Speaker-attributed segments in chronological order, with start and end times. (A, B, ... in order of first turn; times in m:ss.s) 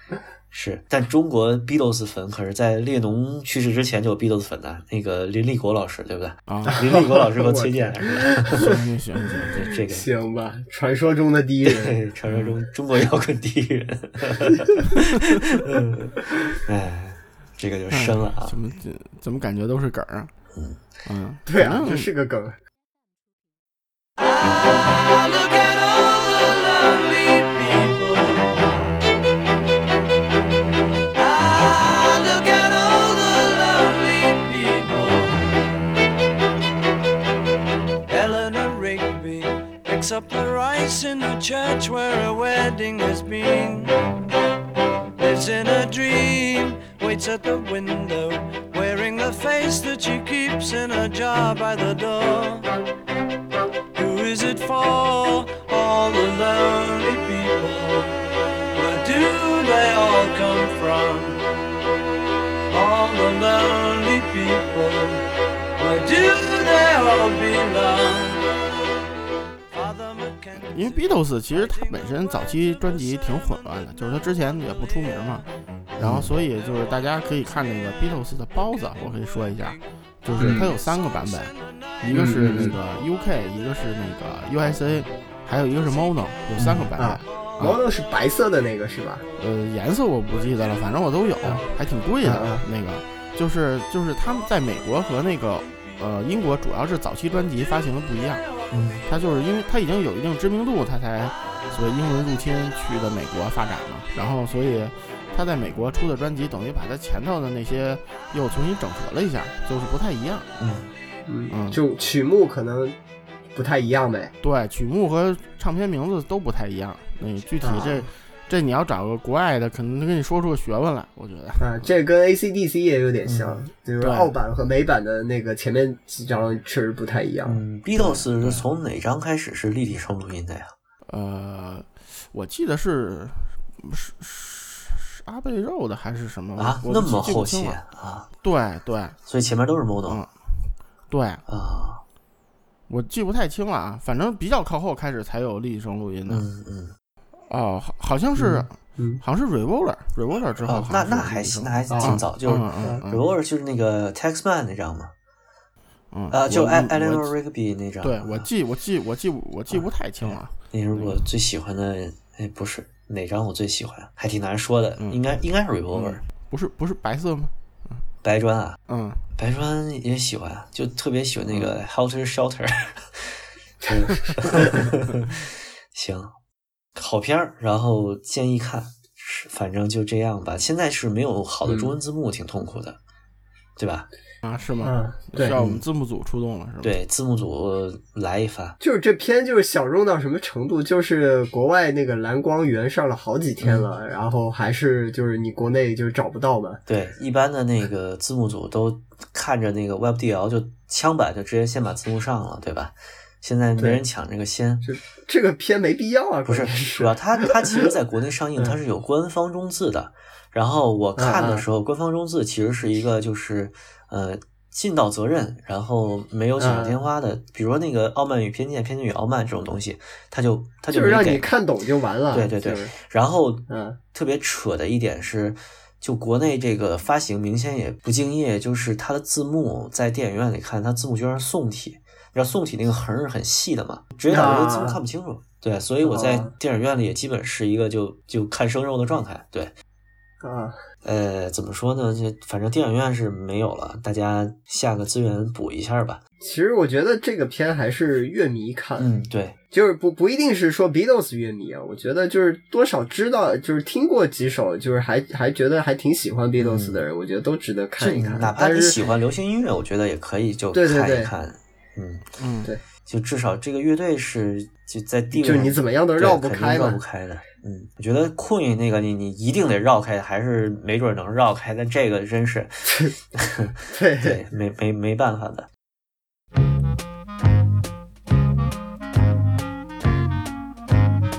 0:00.5-0:08.7 A
0:06.5-0:06.8 B
0:06.7-0:08.6 C
0:08.5-0:09.7 B
0:09.5-0:10.1 A
0:09.7-0:12.0 C
0:11.6-0:18.6 A
0:17.9-0:20.3 B
0:20.6-0:20.8 A
0:21.1-0:22.1 B
0:21.5-0:22.6 C
0:24.2-0:28.9 D
0:31.2-0:35.7 D
0:38.1-0:44.1 D
0:45.2-0:52.7 D
0:53.9-0:58.2 D
0:58.7-1:01.4 D
1:02.7-1:08.5 D
1:09.7-1:11.9 D
1:10.7-1:15.5 B
1:16.0-1:16.3 A
1:16.0-1:27.8 B
1:20.4-1:20.7 C
1:22.1-1:22.8 C
1:26.6-1:26.8 A
1:27.0-1:29.2 C
1:29.4-1:38.4 B
1:32.2-1:32.6 C
1:38.7-1:39.0 A
1:39.0-1:50.5 B
1:50.6-1:50.9 A
1:51.3-1:53.0 C
1:51.5-1:51.8 B
1:53.5-1:54.3 C
1:54.4-2:01.8 B
1:57.6-1:58.1 C
2:01.6-2:07.6 C
2:03.3-2:03.6 A
2:04.0-2:04.3 B
2:07.4-2:10.7 A
2:08.1-2:08.7 B
2:11.1-2:17.8 B
2:16.6-2:18.3 A
2:18.4-2:19.2 B
2:19.3-2:20.2 A
2:20.1-2:21.4 B
2:21.5-2:22.0 A
2:22.9-2:26.4 B
2:26.3-2:26.9 A
2:27.5-2:33.2 B
2:30.6-2:35.1 A
2:31.9-2:32.2 C
2:36.1-2:37.3 B
2:36.3-2:38.5 A
2:38.0-2:41.2 B
2:39.7-2:46.2 A
2:46.0-2:48.0 B
2:48.2-2:48.8 A
2:48.9-2:49.2 B
2:49.4-2:56.3 A
2:57.0-3:03.0 A
3:01.7-3:02.0 C
3:03.8-3:04.1 A
3:04.4-3:06.9 B
3:04.8-3:05.6 C
3:05.5-3:05.8 A
3:06.8-3:08.8 A
3:08.8-3:16.8 C
3:13.6-3:13.9 A
3:16.9-3:24.9 A
3:23.8-3:24.0 C
3:24.8-3:27.9 C
3:26.5-3:41.5 A
3:31.2-3:31.7 C
3:36.6-3:37.0 C
3:40.9-3:42.9 C
3:42.3-3:59.7 A
3:43.7-3:44.0 C
3:54.3-3:55.0 C
3:56.0-3:56.5 C
4:00.4-4:00.8 C
4:01.0-4:06.2 A
4:06.4-4:09.1 C
4:09.0-4:09.6 A
4:09.7-4:19.1 C
4:16.6-4:17.0 A
4:18.0-4:22.3 A
4:20.7-4:21.3 C
4:22.4-4:22.7 B
4:23.0-4:35.7 A
4:25.3-4:27.0 C
4:33.9-4:34.4 C